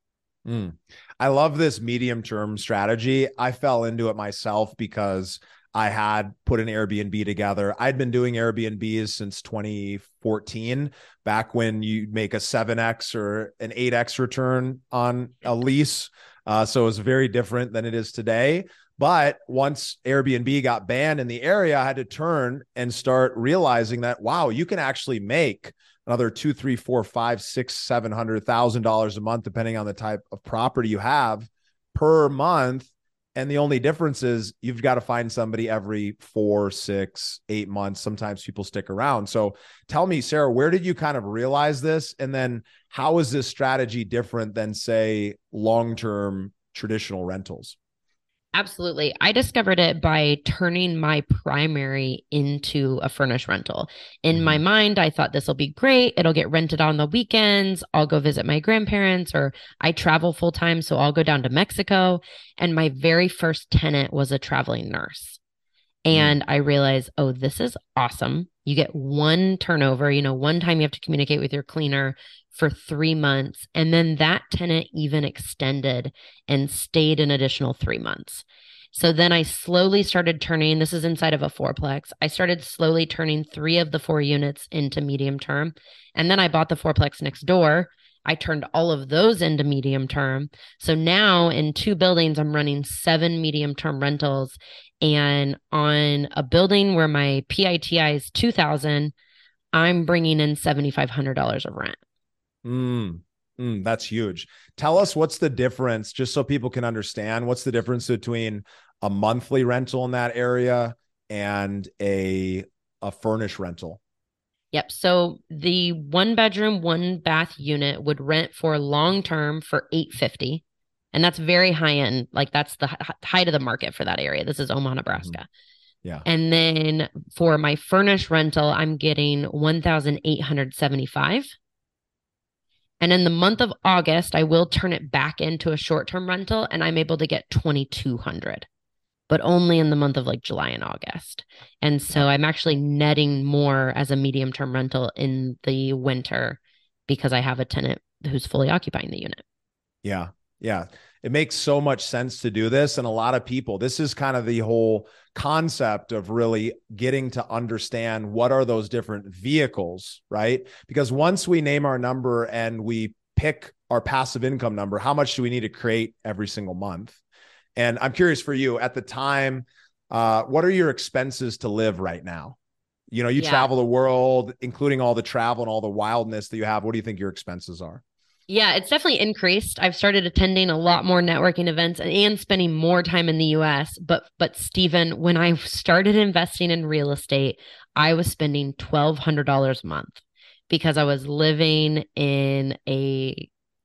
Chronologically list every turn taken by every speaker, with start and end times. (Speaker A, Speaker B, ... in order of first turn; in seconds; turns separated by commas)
Speaker A: 0.4-47.8, Speaker B: 48.5-65.4, Speaker A: 54.3-54.6, Speaker B: 66.0-99.1, Speaker B: 99.7-102.0, Speaker A: 102.6-114.0, Speaker B: 114.7-125.5, Speaker B: 126.2-131.5, Speaker B: 133.0-138.7, Speaker B: 139.3-149.4, Speaker A: 150.0-167.2, Speaker A: 167.8-172.6, Speaker A: 173.1-178.0, Speaker B: 173.4-173.7, Speaker B: 178.5-193.5